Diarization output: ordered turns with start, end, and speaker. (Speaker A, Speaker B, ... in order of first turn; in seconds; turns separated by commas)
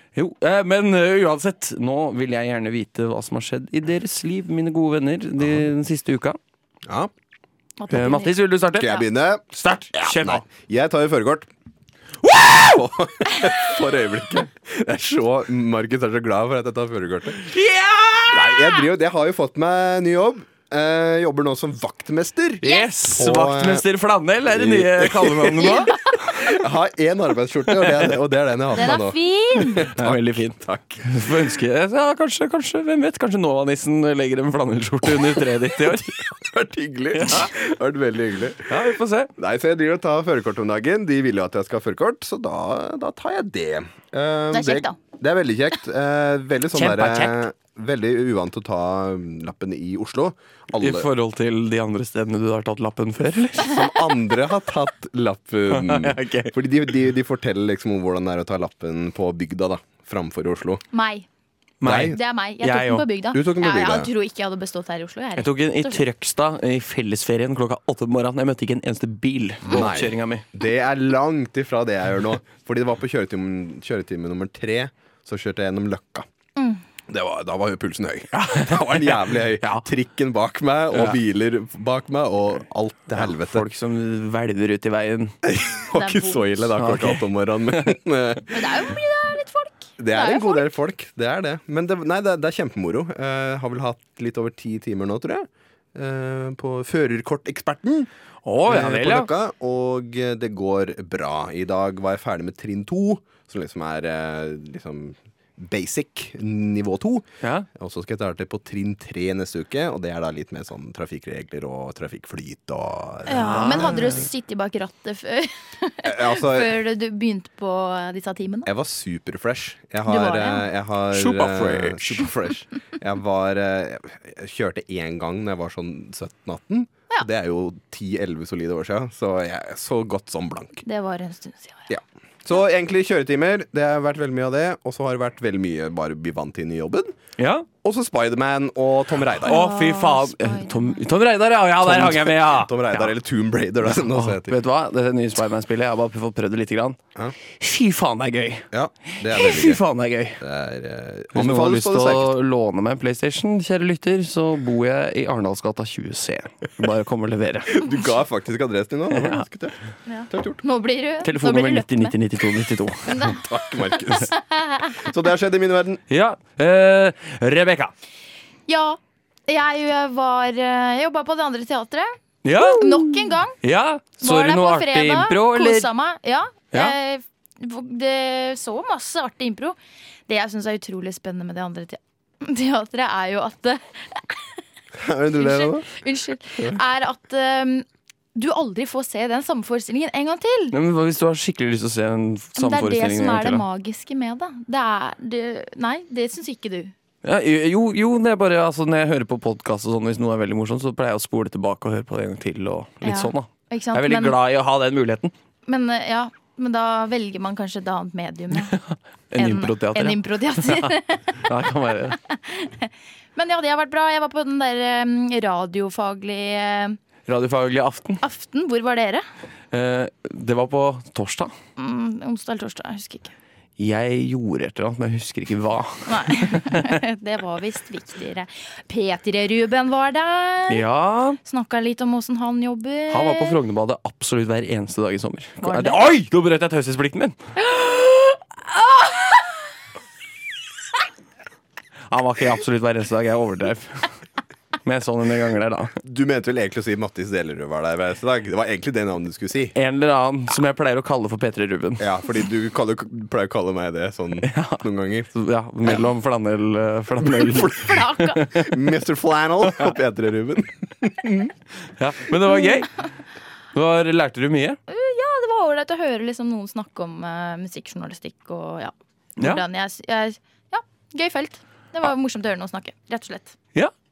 Speaker A: 0.1-6.4, Speaker B: 6.8-7.1, Speaker C: 7.8-8.3, Speaker A: 7.9-10.4, Speaker B: 8.7-11.5, Speaker A: 12.2-12.8, Speaker B: 12.5-17.4, Speaker A: 17.4-18.7, Speaker B: 18.3-23.8, Speaker A: 22.6-26.5, Speaker C: 22.6-22.9, Speaker B: 24.5-25.8, Speaker C: 25.6-26.2, Speaker B: 26.3-31.5, Speaker A: 27.7-28.1, Speaker C: 28.7-29.9, Speaker A: 29.8-36.2, Speaker B: 36.2-51.1, Speaker A: 37.1-37.5, Speaker A: 38.7-39.3, Speaker C: 44.5-45.0, Speaker A: 46.7-47.4, Speaker A: 50.8-53.9, Speaker B: 53.6-60.8, Speaker A: 55.7-56.5, Speaker C: 60.9-61.3, Speaker A: 61.8-63.0, Speaker B: 61.8-62.2, Speaker C: 61.9-66.0, Speaker B: 63.3-64.1, Speaker A: 65.4-70.5, Speaker B: 69.7-76.3, Speaker C: 76.5-76.8, Speaker B: 77.1-83.6, Speaker A: 78.3-79.8, Speaker A: 80.9-81.2, Speaker A: 83.1-85.3, Speaker B: 85.4-88.5, Speaker C: 85.9-86.5, Speaker A: 86.8-87.9, Speaker C: 88.5-90.7, Speaker B: 90.0-98.1, Speaker A: 98.4-99.3, Speaker B: 98.6-107.2, Speaker A: 107.4-107.7, Speaker B: 107.8-114.2, Speaker C: 113.2-118.7, Speaker A: 113.4-114.2, Speaker B: 116.0-116.8, Speaker B: 118.7-130.8, Speaker C: 120.0-120.7, Speaker A: 121.1-122.3, Speaker C: 130.8-131.9, Speaker B: 131.9-137.2, Speaker A: 137.4-137.7, Speaker B: 137.8-139.6, Speaker C: 139.4-141.1, Speaker A: 139.4-143.1, Speaker B: 141.8-144.6, Speaker A: 143.8-147.0, Speaker A: 147.6-150.4, Speaker B: 148.7-149.8, Speaker B: 150.4-152.3, Speaker A: 151.3-157.9, Speaker B: 157.7-159.8, Speaker A: 159.1-159.4, Speaker C: 160.1-162.1, Speaker B: 160.3-160.6, Speaker A: 161.2-163.4, Speaker C: 163.0-165.1, Speaker B: 163.3-164.3, Speaker B: 165.0-166.0, Speaker A: 166.1-167.9, Speaker C: 168.7-173.6, Speaker A: 172.4-175.9, Speaker C: 174.2-179.8, Speaker C: 180.3-184.6, Speaker B: 184.9-185.9, Speaker C: 185.3-190.7, Speaker A: 190.7-193.6, Speaker C: 192.6-196.9, Speaker A: 197.2-205.3, Speaker C: 203.0-204.4, Speaker C: 205.7-208.8, Speaker A: 208.6-212.2, Speaker C: 209.4-211.5, Speaker C: 212.1-217.0, Speaker A: 217.3-218.2, Speaker C: 218.2-219.2, Speaker A: 219.7-221.5, Speaker C: 221.8-223.3, Speaker A: 223.8-226.9, Speaker C: 226.1-230.8, Speaker A: 230.7-231.4, Speaker C: 231.4-233.6, Speaker A: 233.1-237.4, Speaker C: 235.6-236.1, Speaker C: 237.6-239.6, Speaker A: 242.1-244.1, Speaker A: 244.8-245.9, Speaker B: 246.0-249.7, Speaker A: 249.7-252.1, Speaker B: 252.0-255.3, Speaker A: 254.4-258.7, Speaker B: 255.8-256.1, Speaker C: 257.4-258.4, Speaker B: 258.5-261.5, Speaker A: 261.9-262.9, Speaker A: 263.7-264.8, Speaker C: 264.9-273.6, Speaker A: 269.4-269.6